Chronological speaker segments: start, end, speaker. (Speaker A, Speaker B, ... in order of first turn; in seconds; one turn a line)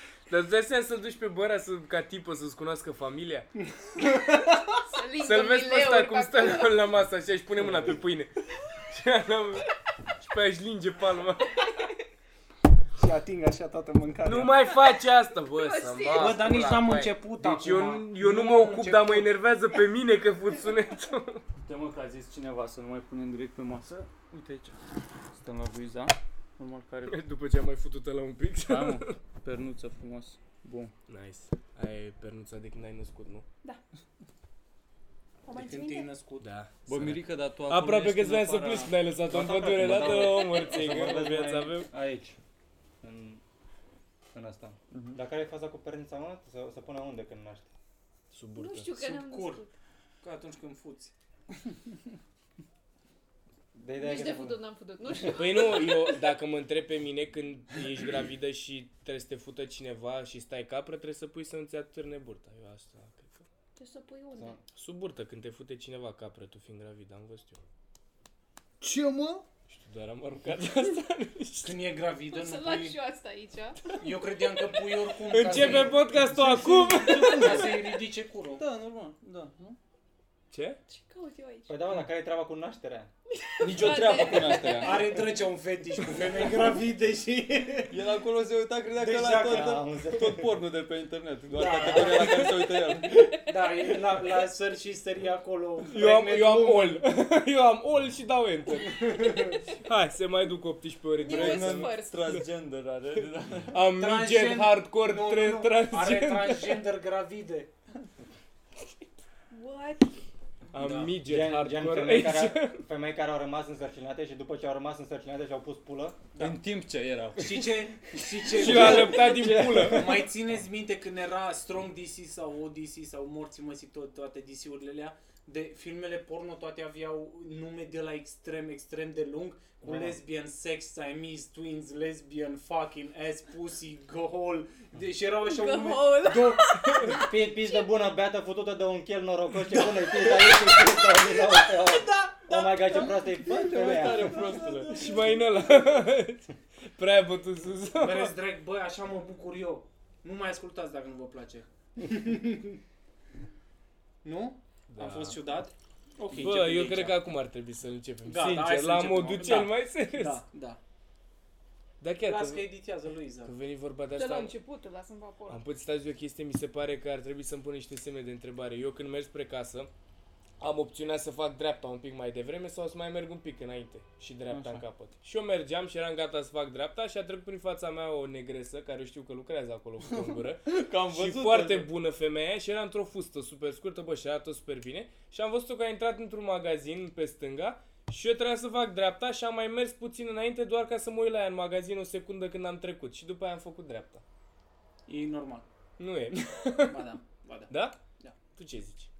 Speaker A: 0.3-3.5
Speaker B: 3.6-4.8
Speaker C: 4.9-6.8
Speaker A: 5.2-9.7
Speaker A: 10.2-11.6
Speaker B: 12.9-14.6
Speaker A: 14.2-21.4
Speaker C: 15.5-16.5
Speaker B: 16.1-19.3
Speaker D: 21.6-27.1
Speaker A: 27.1-29.2
Speaker D: 28.7-30.9
Speaker A: 31.1-33.4
Speaker C: 35.4-36.1
Speaker B: 35.5-36.5
Speaker A: 36.4-41.9
Speaker D: 36.9-38.9
Speaker E: 39.2-42.4
Speaker D: 39.8-40.3
Speaker E: 43.0-43.4
Speaker E: 44.3-47.7
Speaker D: 44.9-45.2
Speaker A: 48.3-48.9
Speaker C: 48.5-49.7
Speaker B: 48.9-49.6
Speaker B: 50.2-51.1
Speaker E: 53.7-54.6
Speaker C: 54.0-56.2
Speaker A: 55.3-63.5
Speaker C: 63.8-64.6
Speaker A: 64.7-67.6
Speaker D: 68.8-69.4
Speaker A: 69.7-71.8
Speaker B: 71.6-73.0
Speaker C: 72.3-73.8
Speaker B: 74.0-78.6
Speaker A: 75.2-77.9
Speaker D: 77.2-77.6
Speaker D: 78.6-79.8
Speaker A: 80.5-80.8
Speaker C: 80.9-81.8
Speaker E: 81.7-83.1
Speaker C: 83.4-85.2
Speaker D: 83.6-85.2
Speaker B: 84.6-88.0
Speaker D: 87.9-93.3
Speaker B: 88.9-89.8
Speaker E: 89.5-90.5
Speaker B: 91.5-92.8
Speaker B: 93.4-97.0
Speaker A: 95.9-102.4
Speaker B: 98.8-99.6
Speaker C: 101.2-102.4
Speaker D: 101.3-103.8
Speaker A: 103.7-106.8
Speaker B: 103.9-107.7
Speaker C: 109.5-110.1
Speaker A: 110.7-112.8
Speaker B: 110.8-111.2
Speaker E: 111.2-116.2
Speaker B: 116.3-116.6
Speaker D: 116.4-119.8
Speaker B: 117.3-137.2
Speaker A: 118.6-120.2
Speaker E: 118.6-120.0
Speaker E: 129.8-130.2
Speaker C: 135.4-137.3
Speaker A: 136.9-137.2
Speaker E: 137.2-144.5
Speaker B: 139.7-143.1
Speaker D: 142.8-145.4
Speaker B: 144.2-145.2
Speaker A: 144.8-148.3
Speaker B: 147.9-152.8
Speaker B: 154.2-157.2
Speaker A: 154.9-155.4
Speaker A: 156.3-160.4
Speaker B: 158.2-160.8
Speaker A: 162.0-162.7
Speaker B: 162.2-163.5
Speaker A: 163.4-164.5
Speaker C: 164.2-165.6
Speaker A: 165.5-169.9
Speaker A: 170.6-194.2
Speaker D: 174.5-174.8
Speaker D: 180.1-181.9
Speaker B: 195.1-195.7
Speaker A: 196.0-197.1
Speaker B: 196.9-198.3
Speaker A: 197.7-198.0
Speaker A: 198.5-199.1